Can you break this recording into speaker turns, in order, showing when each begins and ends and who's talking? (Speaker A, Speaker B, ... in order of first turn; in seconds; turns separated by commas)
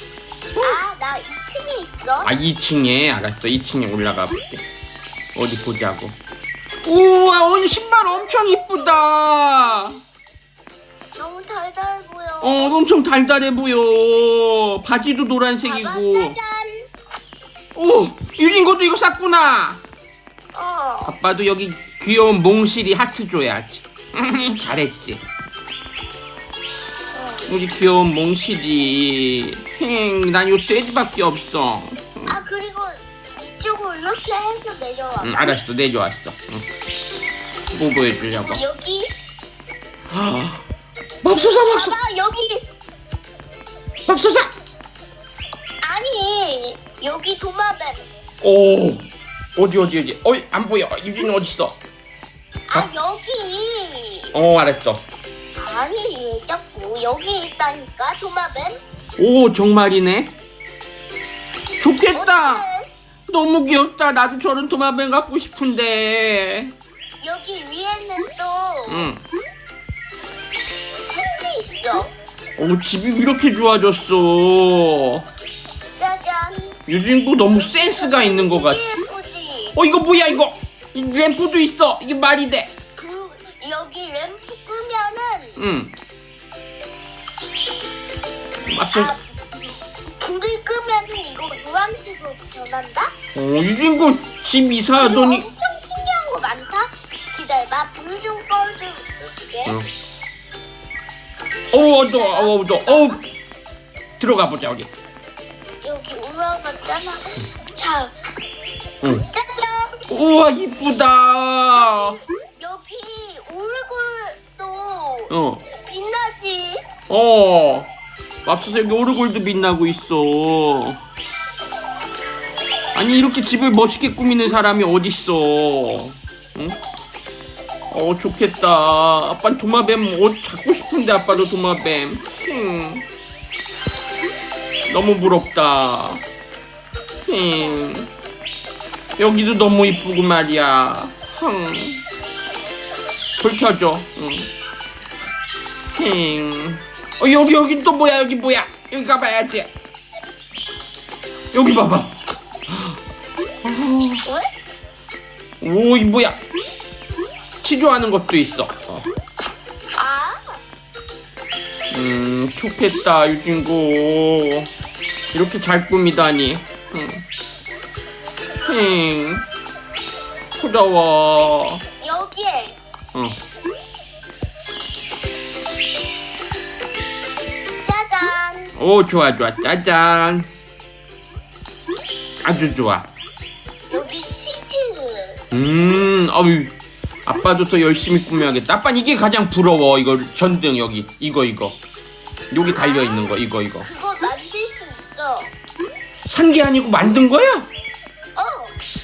Speaker A: 0.5-0.8, Speaker B: 0.6-2.3, Speaker A: 2.2-4.6, Speaker A: 5.3-6.2, Speaker A: 6.8-10.0, Speaker B: 8.1-9.0, Speaker B: 11.1-12.8, Speaker A: 12.4-16.4, Speaker B: 15.6-16.9, Speaker A: 17.7-19.8, Speaker B: 20.5-21.1, Speaker A: 21.0-25.2, Speaker B: 27.1-27.5, Speaker A: 27.5-32.4, Speaker B: 32.3-35.5, Speaker A: 35.2-36.6, Speaker A: 37.7-38.6, Speaker B: 38.3-39.1, Speaker A: 40.1-40.6, Speaker A: 41.2-42.0, Speaker B: 41.3-42.6, Speaker A: 44.1-44.5, Speaker B: 45.8-48.1, Speaker A: 48.4-49.0, Speaker A: 49.5-51.8, Speaker B: 52.7-54.3, Speaker A: 54.3-55.0, Speaker B: 55.6-58.8, Speaker A: 59.2-60.3, Speaker A: 61.8-62.6, Speaker B: 62.1-62.9, Speaker A: 63.3-66.7, Speaker B: 67.2-69.1, Speaker A: 68.9-69.2, Speaker B: 71.1-72.1, Speaker A: 72.6-75.2, Speaker B: 76.0-76.8, Speaker A: 76.9-78.8, Speaker B: 77.5-79.8, Speaker A: 79.7-82.7, Speaker B: 83.0-85.6, Speaker A: 85.6-85.9, Speaker A: 88.7-89.2, Speaker B: 88.9-93.1, Speaker A: 93.3-95.5, Speaker B: 94.9-99.8, Speaker A: 101.7-103.2, Speaker B: 101.8-103.2, Speaker A: 104.2-104.9, Speaker B: 105.8-108.1, Speaker B: 109.3-110.0, Speaker A: 110.1-112.2, Speaker B: 111.7-116.8, Speaker A: 115.3-115.6, Speaker A: 117.1-117.9, Speaker A: 118.5-121.0, Speaker A: 122.9-126.8, Speaker A: 127.9-133.1, Speaker A: 134.9-136.2, Speaker A: 137.3-138.1, Speaker A: 139.2-142.0, Speaker A: 143.4-144.5, Speaker A: 146.0-149.7, Speaker A: 151.5-152.1, Speaker A: 152.7-153.0, Speaker A: 153.6-154.2, Speaker A: 155.6-156.4, Speaker A: 157.6-159.1, Speaker B: 159.9-160.6, Speaker A: 161.9-164.7, Speaker A: 165.3-167.2, Speaker A: 168.7-169.4, Speaker A: 170.6-171.8, Speaker B: 172.0-172.8, Speaker B: 177.8-178.7, Speaker A: 178.8-180.5, Speaker A: 182.4-183.1, Speaker B: 183.9-185.4, Speaker A: 185.5-186.7, Speaker A: 187.2-191.8, Speaker A: 192.5-193.9, Speaker B: 192.6-195.5, Speaker A: 196.2-197.7, Speaker B: 198.3-198.7